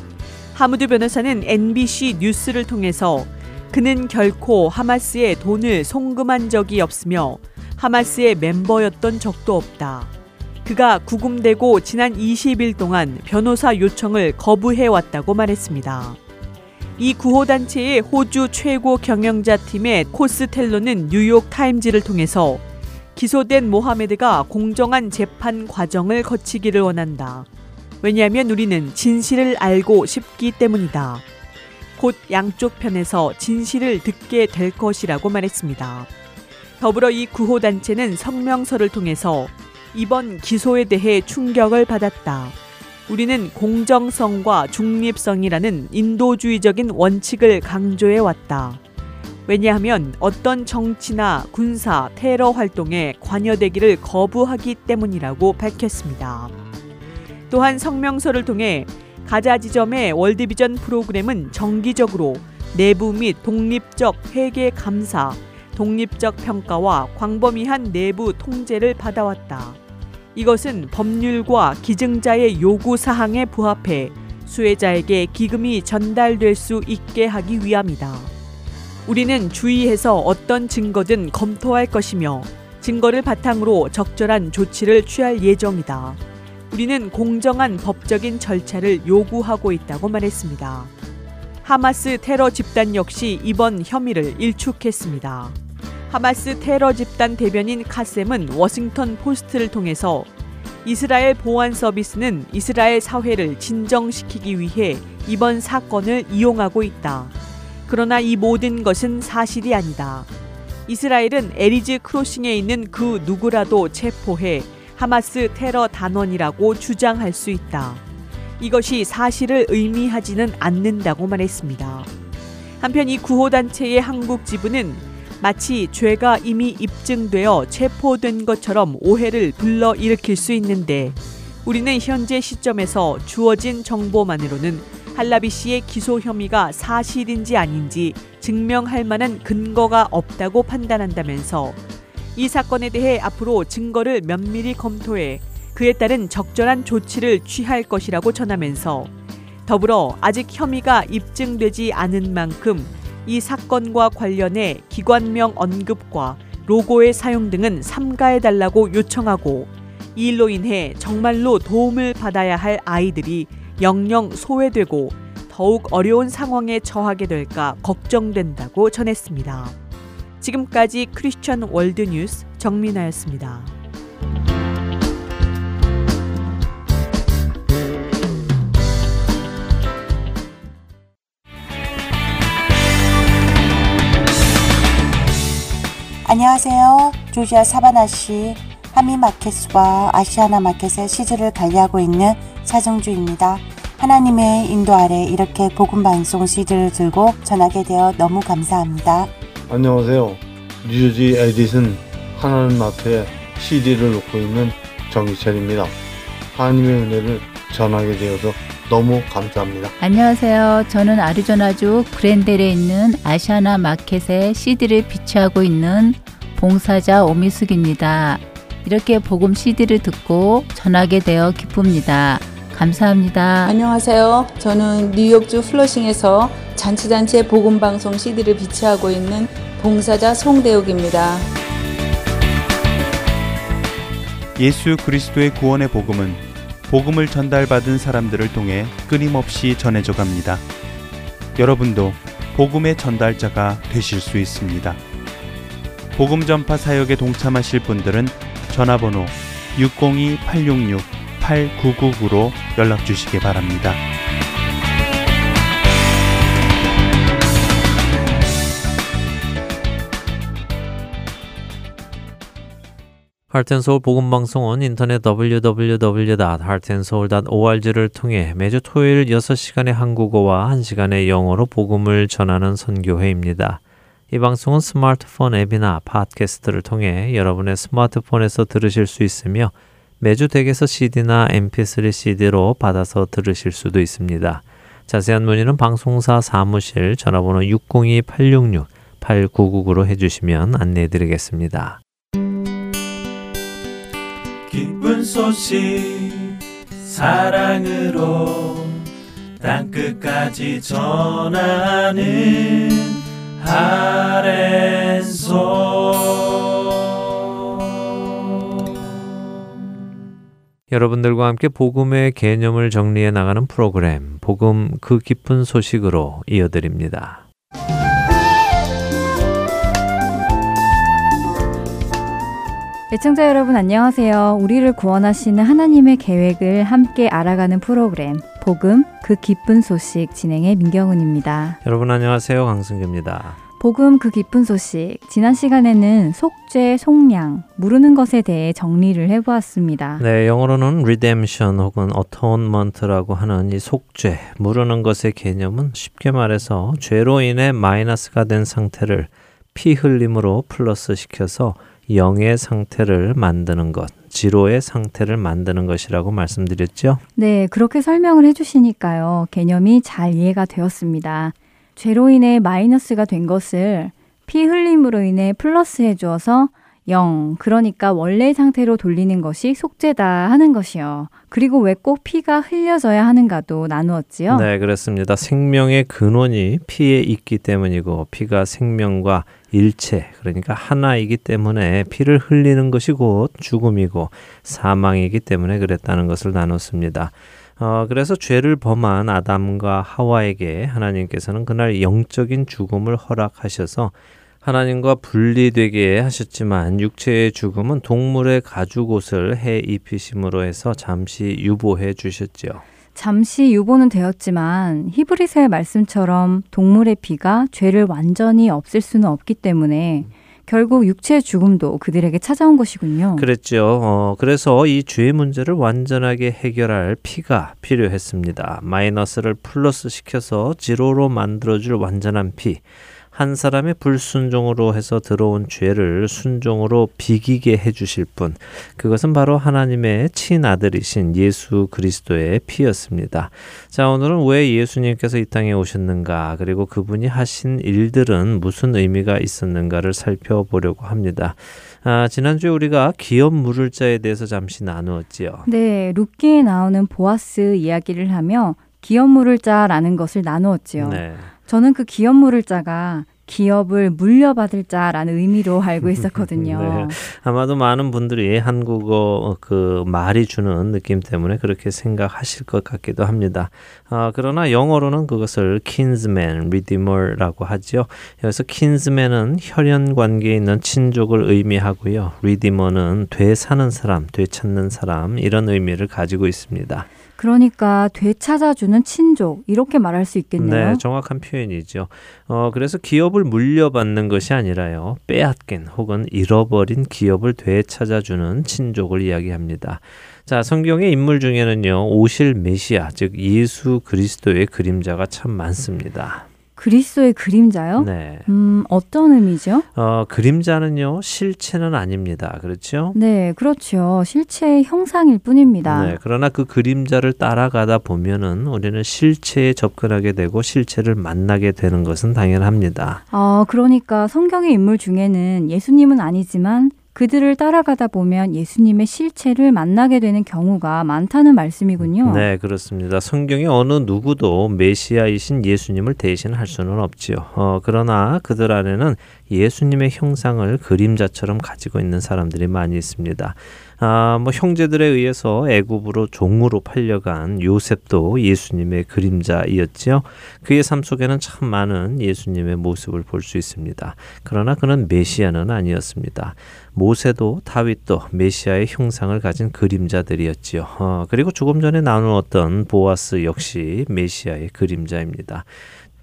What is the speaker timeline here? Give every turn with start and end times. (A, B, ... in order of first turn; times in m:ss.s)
0:00.5-0:10.1 A
0:10.6-0:16.2 A
0:17.0-0:22.6 A
0:23.1-0:27.4 A
0:28.0-0:31.2 A
0:32.0-0:36.1 A
0:36.8-0:42.6 A
0:43.1-0:48.8 A
0:49.4-0:56.5 A
0:57.5-1:09.8 A
1:10.4-1:18.3 A
1:19.0-1:26.2 A
1:26.7-1:30.9 A
1:31.6-1:35.6 A
1:36.1-1:40.3 A
1:40.8-1:47.3 A
1:47.9-1:50.3 A
1:50.9-1:58.0 A
1:58.6-2:02.1 A
2:02.8-2:21.8 A
2:22.4-2:29.1 A
2:29.6-2:49.8 A
2:50.4-2:53.7 A
3:06.2-3:19.3 B
3:19.7-3:26.0 C
3:26.5-3:29.9 C
3:30.0-3:43.7 D
3:43.6-3:51.5 E
3:54.6-4:00.6 F
4:01.5-4:05.0 F
4:06.1-4:14.0 F
4:23.5-4:52.0 G
4:54.7-4:59.0 H
4:59.6-5:06.6 H
5:10.9-5:17.4 G
5:23.1-5:31.8 I
5:31.8-5:33.6 G
5:33.8-5:40.2 I
5:40.2-5:57.2 G
5:57.4-6:14.7 I
6:14.5-6:42.8 G
6:43.1-6:53.5 I
6:53.4-7:25.7 G
7:25.6-7:37.2 I
7:31.0-7:31.5 G
7:36.2-7:57.1 G
7:57.4-8:01.0 I
8:00.6-8:16.5 G
8:16.8-8:19.9 I
8:18.0-8:18.5 G
8:19.9-8:23.2 G
8:23.1-8:26.2 I
8:25.8-8:33.2 G
8:33.3-8:42.5 I
8:42.0-9:15.7 G